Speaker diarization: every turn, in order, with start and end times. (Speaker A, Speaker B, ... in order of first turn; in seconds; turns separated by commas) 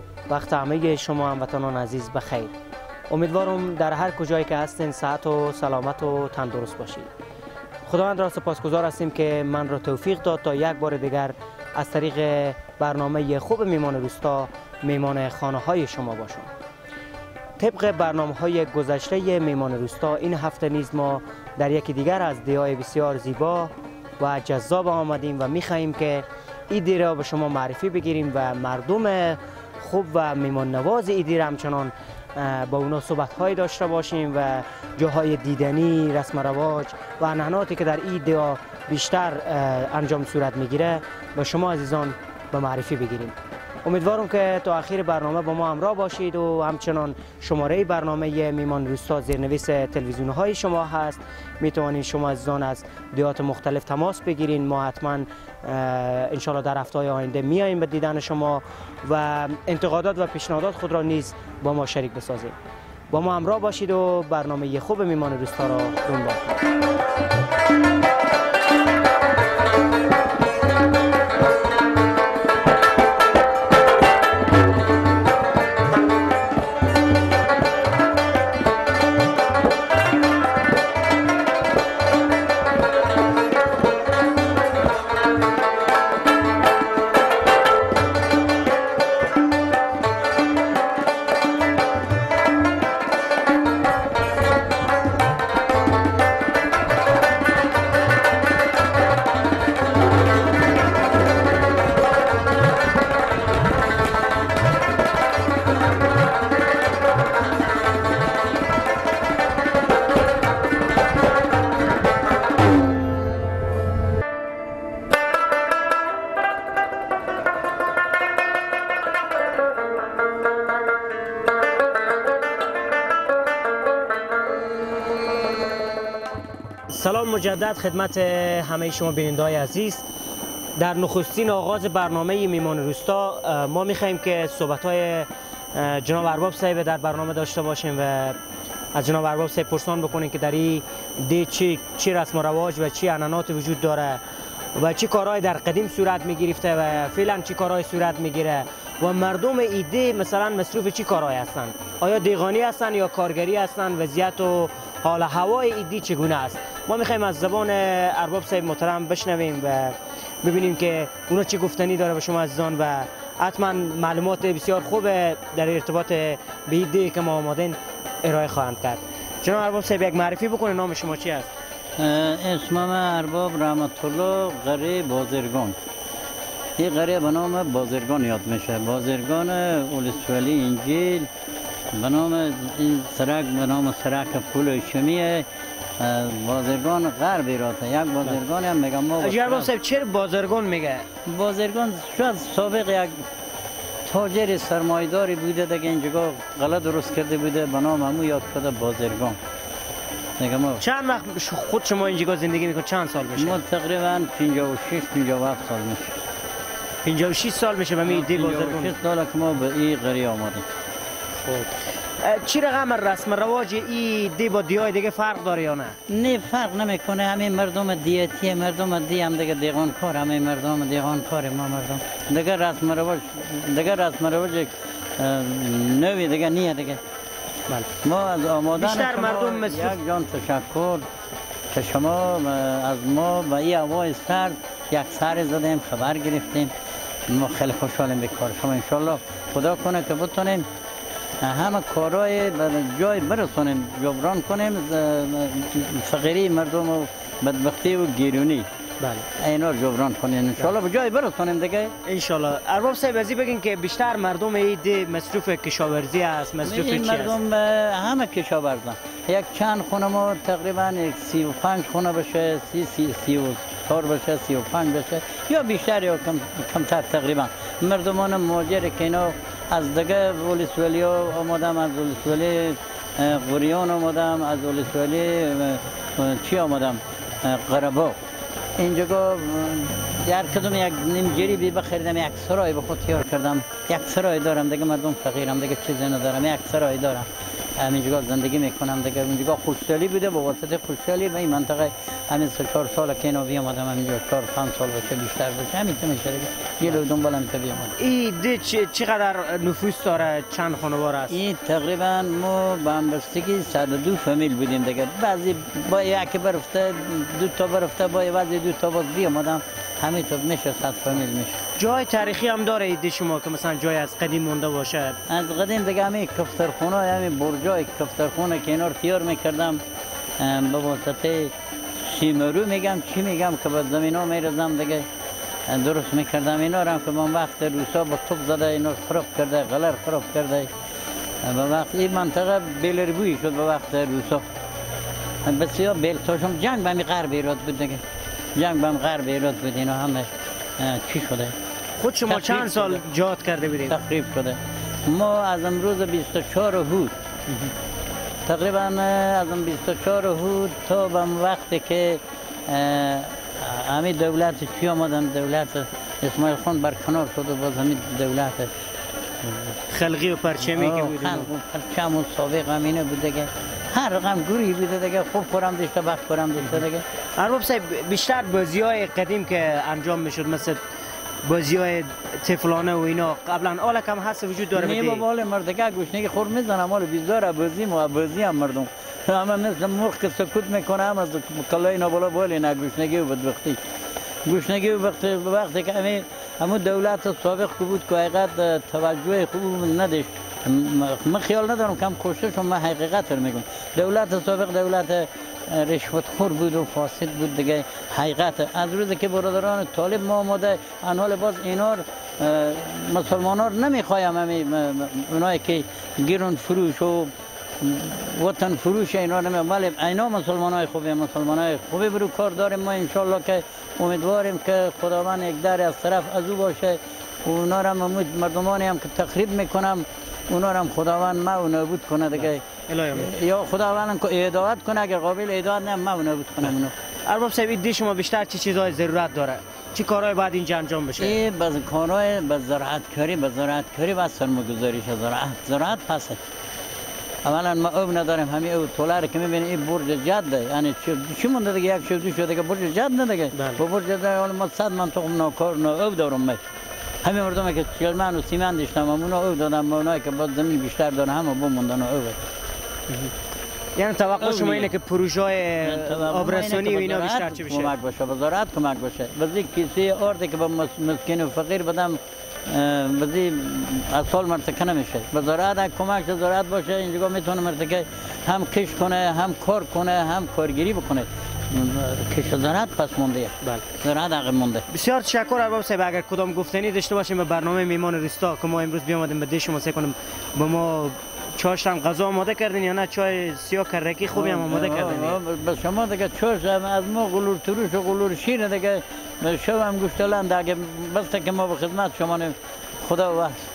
Speaker A: 0.3-2.5, Speaker A: 3.1-7.1, Speaker A: 7.9-16.5, Speaker A: 17.6-62.6, Speaker A: 63.1-66.6, Speaker A: 126.9-130.1, Speaker A: 130.8-138.4, Speaker A: 138.9-144.2, Speaker A: 144.8-171.5, Speaker B: 172.0-175.8, Speaker B: 176.8-181.3, Speaker B: 181.9-185.5, Speaker B: 186.0-189.7, Speaker A: 189.2-191.1, Speaker B: 191.3-193.2, Speaker B: 194.1-199.4, Speaker B: 200.4-200.8, Speaker A: 200.8-203.6, Speaker B: 203.4-206.2, Speaker A: 207.0-208.9, Speaker B: 208.0-210.7, Speaker A: 211.3-216.0, Speaker B: 216.1-227.0, Speaker B: 228.0-231.1, Speaker A: 228.8-230.0, Speaker B: 231.7-236.7, Speaker B: 237.3-240.7, Speaker B: 241.4-248.7, Speaker A: 249.0-249.3, Speaker B: 249.3-251.9, Speaker A: 252.1-257.4, Speaker B: 256.6-278.2, Speaker B: 278.8-298.0, Speaker A: 298.0-301.4, Speaker B: 301.3-311.6, Speaker A: 311.8-315.2, Speaker B: 315.3-319.8, Speaker B: 320.4-325.1, Speaker B: 325.7-330.7, Speaker B: 331.4-334.5, Speaker B: 335.4-338.0, Speaker B: 338.6-341.6, Speaker A: 342.0-344.0, Speaker B: 342.3-343.0, Speaker B: 343.9-347.1, Speaker A: 347.5-347.7, Speaker B: 348.4-358.7, Speaker A: 359.4-361.5, Speaker B: 360.6-367.1, Speaker A: 367.4-370.8, Speaker A: 371.4-375.2, Speaker B: 374.7-383.8, Speaker B: 384.4-426.9, Speaker A: 422.3-423.3, Speaker A: 427.3-431.4, Speaker B: 431.2-436.4, Speaker B: 437.4-446.6, Speaker A: 443.5-443.8, Speaker B: 447.2-452.4, Speaker A: 454.0-457.9, Speaker B: 454.4-454.9, Speaker B: 455.8-474.9, Speaker A: 474.9-485.4, Speaker B: 484.3-493.6